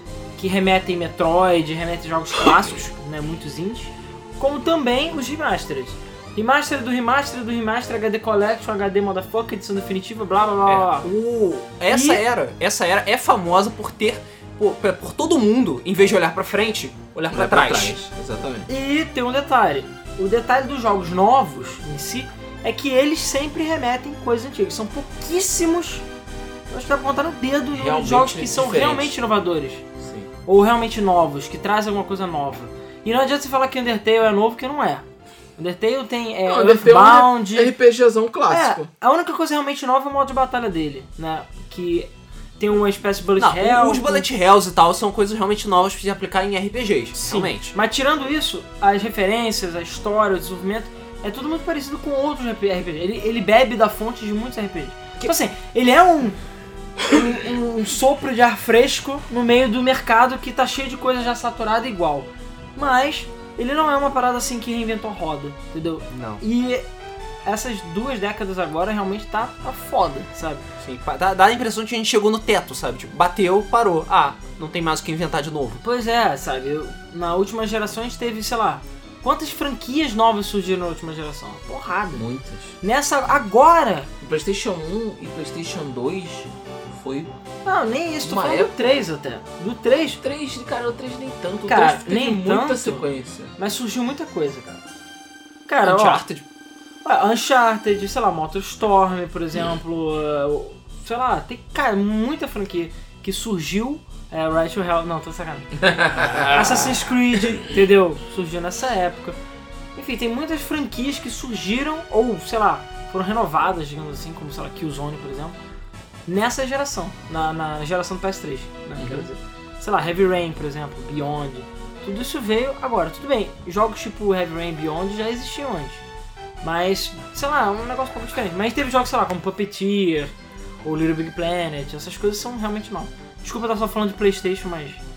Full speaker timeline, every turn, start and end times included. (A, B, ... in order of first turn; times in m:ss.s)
0:00.4-0:11.1 A
0:10.6-0:18.1 B
0:11.9-0:12.2 A
0:17.3-0:18.7 C
0:18.7-0:26.0 A
0:26.7-0:29.8 A
0:27.7-0:29.2 C
0:30.0-0:30.3 C
0:30.4-0:35.0 A
0:35.6-0:37.8 A
0:36.4-0:38.9 C
0:38.5-0:44.2 A
0:43.4-0:47.7 B
0:47.2-0:56.4 A
0:57.0-1:06.8 A
1:06.1-1:06.4 B
1:07.4-1:10.6 A
1:10.8-1:15.8 B
1:15.8-1:22.3 A
1:22.1-1:22.8 C
1:22.8-1:24.1 A
1:24.2-1:27.3 C
1:27.6-1:30.2 A
1:28.2-1:28.9 C
1:30.2-1:33.6 C
1:31.6-1:33.0 A
1:33.6-1:34.8 A
1:35.7-1:36.2 A
1:35.8-1:36.4 B
1:37.0-1:49.4 A
1:45.8-1:47.0 C
1:50.0-1:55.5 A
1:56.3-2:06.0 A
1:59.0-1:59.3 C
2:06.6-2:10.3 A
2:10.8-2:15.0 A